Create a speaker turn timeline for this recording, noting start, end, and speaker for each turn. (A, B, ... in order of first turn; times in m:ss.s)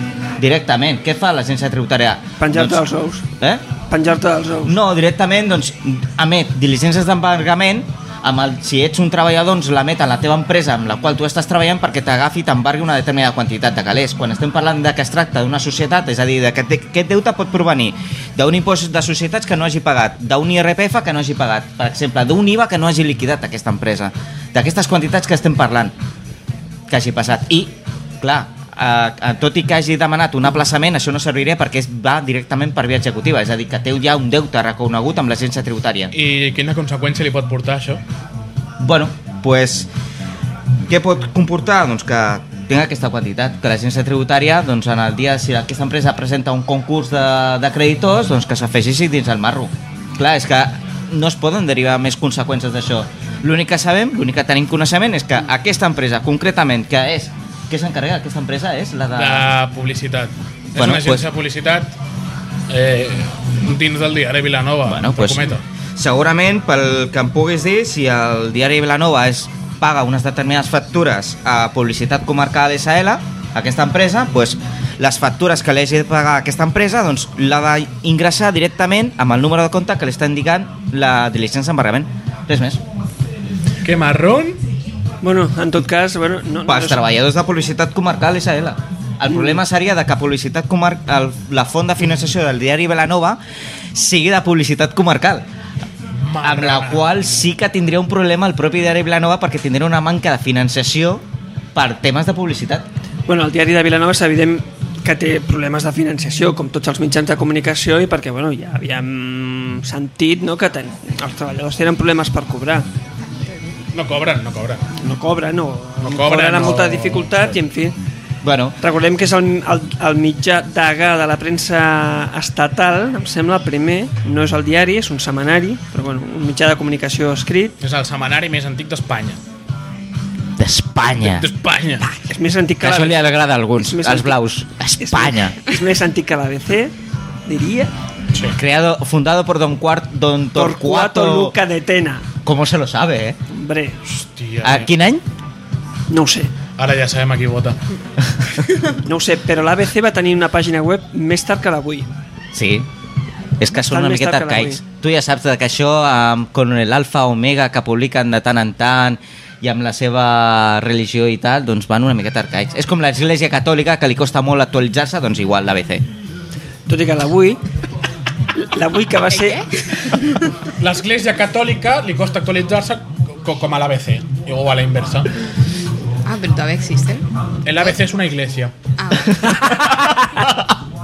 0:00.4-0:02.8 A
0:02.4-0:03.2 B
0:03.9-0:04.8 B
0:04.7-0:25.9 A
0:26.9-0:36.1 A
0:36.1-0:38.0 C
0:38.8-0:39.9 A
0:40.9-0:59.5 A
0:59.2-1:01.9 C
1:00.7-1:01.3 A
1:02.7-1:05.6 C
1:04.9-1:22.8 A
1:23.8-1:24.6 C
1:25.2-1:27.0 B
1:26.7-1:33.4 A
1:34.0-1:35.4 A
1:36.2-1:37.2 C
1:36.4-1:42.9 A
1:43.3-1:52.9 B
1:53.9-1:54.9 C
1:55.0-1:58.0 B
1:56.0-1:57.6 C
1:58.4-1:58.8 A
1:58.8-2:07.8 B
2:07.8-2:09.4 C
2:10.6-2:11.5 A
2:11.2-2:12.1 C
2:12.2-2:13.2 B
2:12.8-2:15.6 A
2:13.8-2:14.4 B
2:15.0-2:16.9 B
2:17.5-2:17.9 B
2:18.6-2:21.6 A
2:20.6-2:22.3 B
2:22.4-2:23.4 A
2:23.5-2:24.0 B
2:24.1-2:24.9 C
2:24.6-2:25.2 A
2:26.1-2:26.5 B
2:26.8-2:27.8 C
2:29.0-2:32.1 B
2:32.5-2:32.9 A
2:33.6-2:46.0 A
2:33.8-2:34.8 B
2:46.9-2:47.6 B
2:48.6-2:49.6 B
2:49.3-2:50.4 D
2:50.8-2:55.3 C
2:56.3-2:57.3 D
2:57.6-2:58.8 C
2:59.0-3:00.0 D
2:59.5-3:00.8 A